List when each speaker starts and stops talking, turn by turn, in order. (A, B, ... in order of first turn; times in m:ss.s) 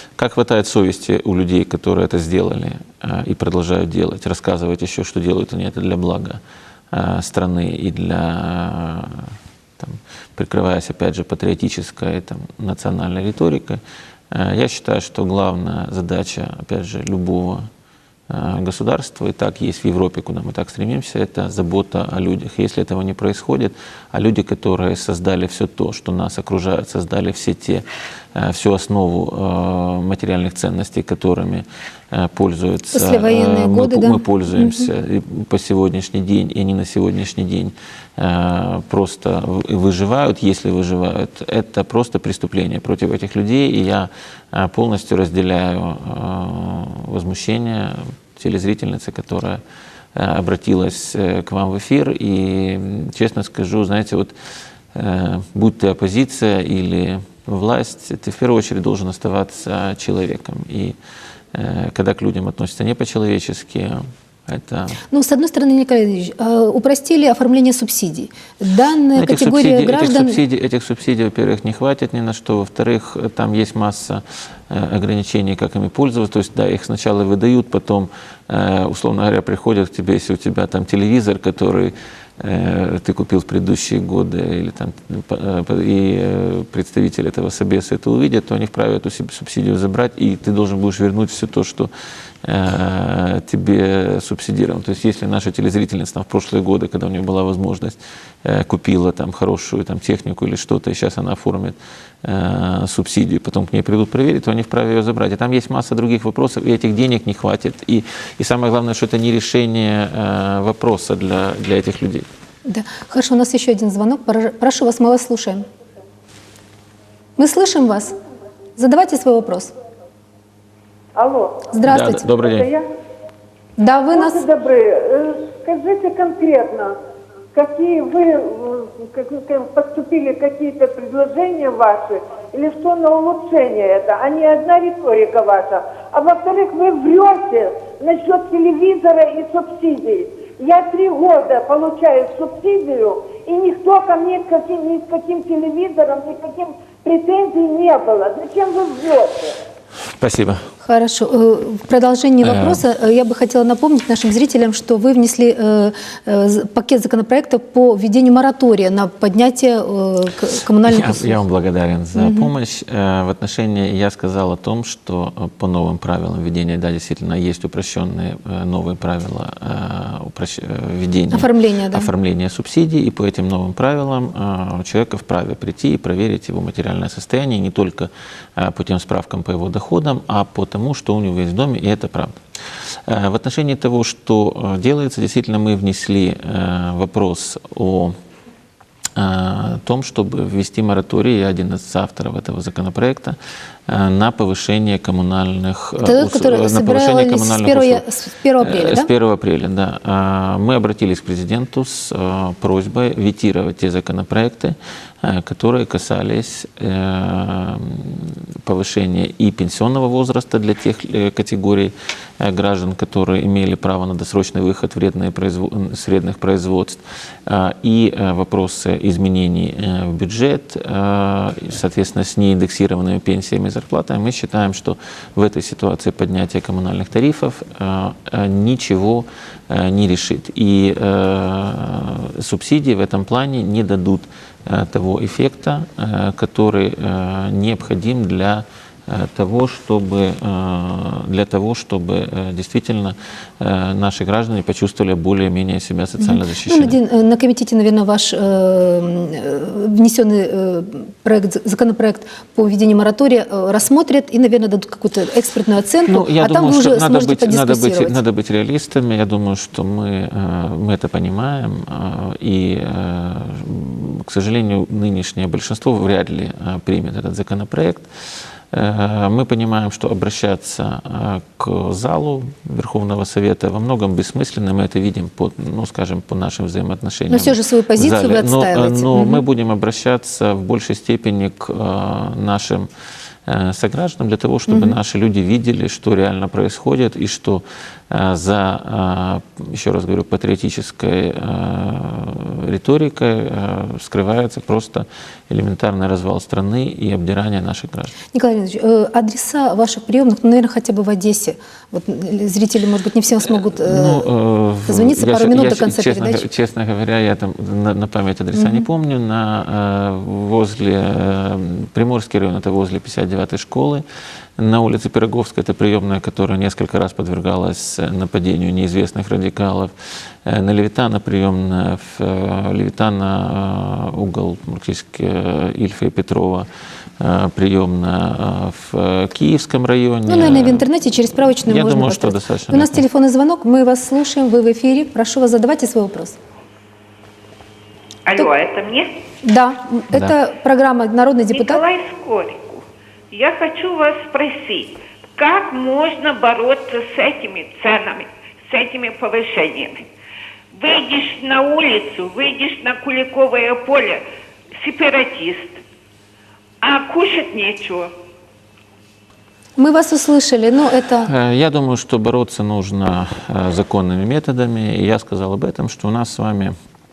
0:00.2-0:06.4 A
0:06.9-0:13.8 A
0:14.3-0:17.6 A
0:18.3-0:27.8 A
0:28.3-0:49.6 A
0:32.9-0:34.9 B
0:50.1-0:54.3 A
0:54.9-1:01.0 A
1:01.5-1:05.0 A
1:05.1-1:10.4 B
1:09.2-1:31.9 A
1:32.4-1:52.3 A
1:52.6-1:55.6 B
1:57.4-1:58.1 B
1:58.8-1:59.7 B
2:01.2-2:02.8 C
2:01.7-2:02.2 B
2:01.8-2:02.7 A
2:03.8-2:04.4 B
2:04.1-2:06.9 C
2:07.5-2:29.5 C
2:30.2-2:30.7 A
2:30.8-2:41.4 B
2:32.4-2:32.8 A
2:40.8-3:02.3 A
2:42.1-2:42.5 B
2:51.3-2:52.1 B
3:03.1-3:08.1 A
3:09.2-3:13.4 A
3:13.9-3:18.0 A
3:16.0-3:19.1 B
3:18.6-4:07.0 A
4:06.2-4:18.2 B
4:16.0-4:28.0 A
4:28.7-4:42.9 A
4:37.3-4:39.4 B
4:43.5-4:58.1 A
4:44.7-4:45.0 B
4:58.3-5:04.3 B
5:03.6-5:14.0 A
5:04.9-5:06.4 B
5:08.5-5:08.9 B
5:14.6-5:19.9 A
5:20.4-5:26.7 A
5:27.2-5:33.0 A
5:30.3-5:36.4 B
5:38.2-5:39.1 D
5:39.4-5:41.8 B
5:41.5-5:50.0 D
5:50.7-5:54.2 D
5:54.8-5:55.8 D
5:56.8-5:58.1 D
5:59.8-6:01.3 B
6:01.2-6:06.7 A